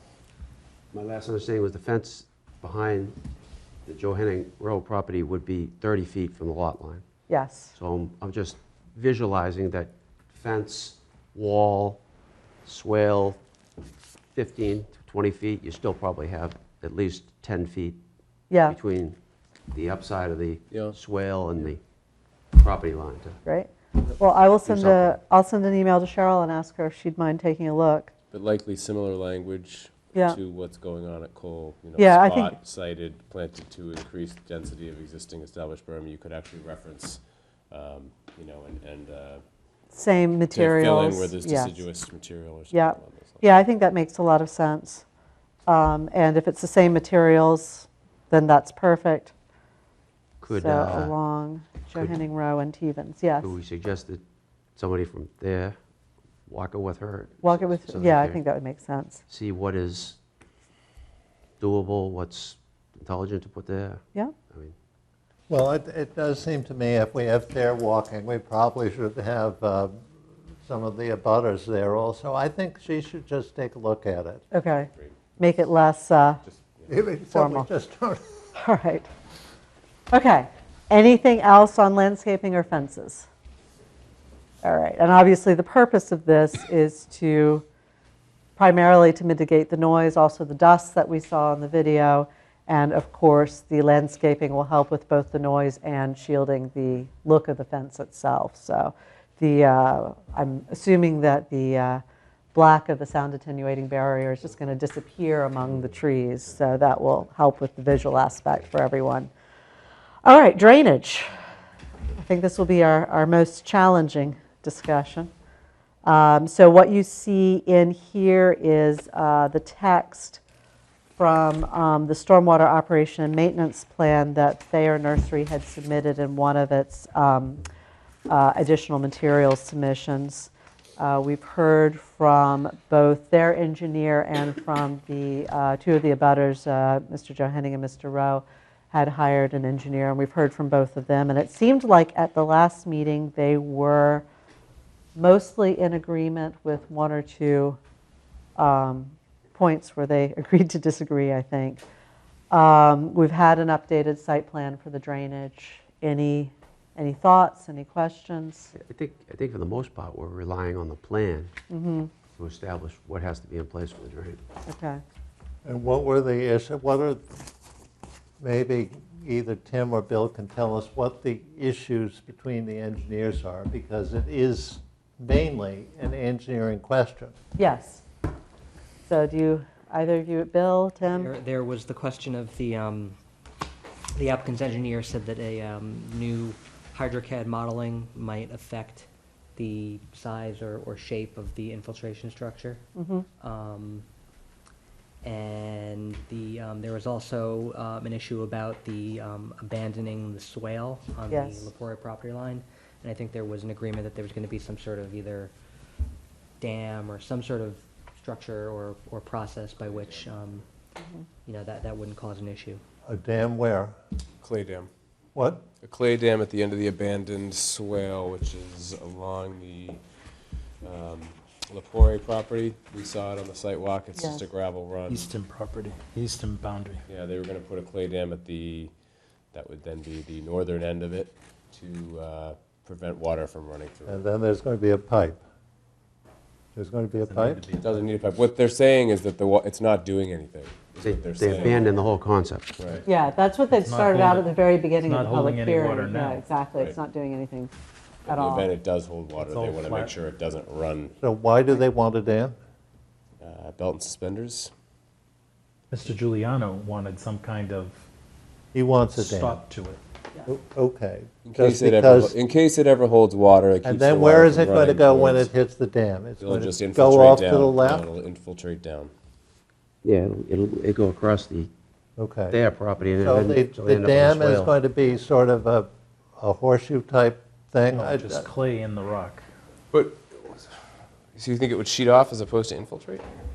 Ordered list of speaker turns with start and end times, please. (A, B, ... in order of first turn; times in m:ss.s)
0:00.9-0:03.2 A
0:03.8-0:07.0 A
0:07.3-0:07.7 B
0:07.7-0:12.0 A
0:12.6-0:13.4 A
0:14.3-0:18.0 A
0:18.5-0:18.8 B
0:18.6-0:19.2 A
0:19.7-0:21.8 A
0:20.7-0:21.0 C
0:22.5-0:23.4 A
0:23.4-0:28.1 B
0:24.6-0:25.1 A
0:28.3-0:39.4 C
0:32.0-0:32.5 B
0:39.9-0:41.8 B
0:40.5-0:43.4 C
0:42.7-0:45.0 B
0:45.7-0:49.3 B
0:50.4-0:51.1 A
0:50.5-0:53.5 B
0:53.4-0:54.2 A
0:54.8-0:55.8 A
0:56.5-0:58.4 A
0:57.4-0:59.2 B
0:59.3-1:00.2 A
1:01.6-1:04.7 A
1:05.5-1:10.0 D
1:10.7-1:14.4 D
1:14.5-1:16.4 B
1:14.9-1:15.3 C
1:16.4-1:16.9 C
1:16.9-1:18.3 D
1:17.3-1:17.7 B
1:18.6-1:19.1 B
1:20.1-1:23.3 B
1:24.6-1:27.6 B
1:28.6-1:42.0 B
1:42.5-1:49.3 B
1:50.2-1:51.3 B
1:52.2-1:55.3 B
1:56.0-2:00.4 B
2:01.2-2:07.6 B
2:08.3-2:24.2 B
2:25.1-2:27.8 B
2:28.6-2:31.8 B
2:32.5-2:38.7 B
2:38.7-2:41.5 A
2:41.7-2:42.1 B
2:42.4-2:44.4 A
2:44.7-2:45.0 B
2:45.6-2:47.2 D
2:48.4-2:57.3 D
2:57.6-2:58.0 B
2:59.1-3:01.3 B
3:01.1-3:03.2 E
3:04.1-3:12.8 E
3:13.0-3:13.2 B
3:13.4-3:14.0 E
3:15.2-3:25.5 E
3:21.3-3:21.7 B
3:26.6-3:30.6 E
3:29.8-3:30.3 C
3:31.4-3:32.8 E
3:33.0-3:33.9 D
3:34.4-3:34.9 C
3:35.3-3:35.6 D
3:35.8-3:40.0 C
3:40.8-3:45.3 C
3:44.2-3:44.4 B
3:45.1-3:47.0 F
3:47.1-3:48.9 C
3:49.5-3:54.2 C
3:54.0-3:55.4 D
3:56.7-3:57.6 D
3:57.2-3:58.0 F
3:57.8-4:01.9 C
4:01.0-4:02.7 A
4:02.8-4:03.0 C
4:03.0-4:07.7 B
4:03.7-4:06.5 F
4:08.2-4:11.2 C
4:08.3-4:08.7 B
4:09.4-4:10.1 F
4:11.2-4:12.5 D
4:13.4-4:14.7 C
4:15.9-4:18.0 F
4:18.7-4:19.6 D
4:19.2-4:20.0 F
4:20.4-4:22.3 D
4:21.4-4:25.5 C
4:23.8-4:28.0 D
4:26.4-4:29.1 C
4:30.0-4:31.7 A
4:32.2-4:32.6 D
4:32.5-4:34.7 A
4:33.2-4:38.5 D
4:37.9-4:39.5 F
4:39.9-4:40.7 C
4:41.3-4:43.3 C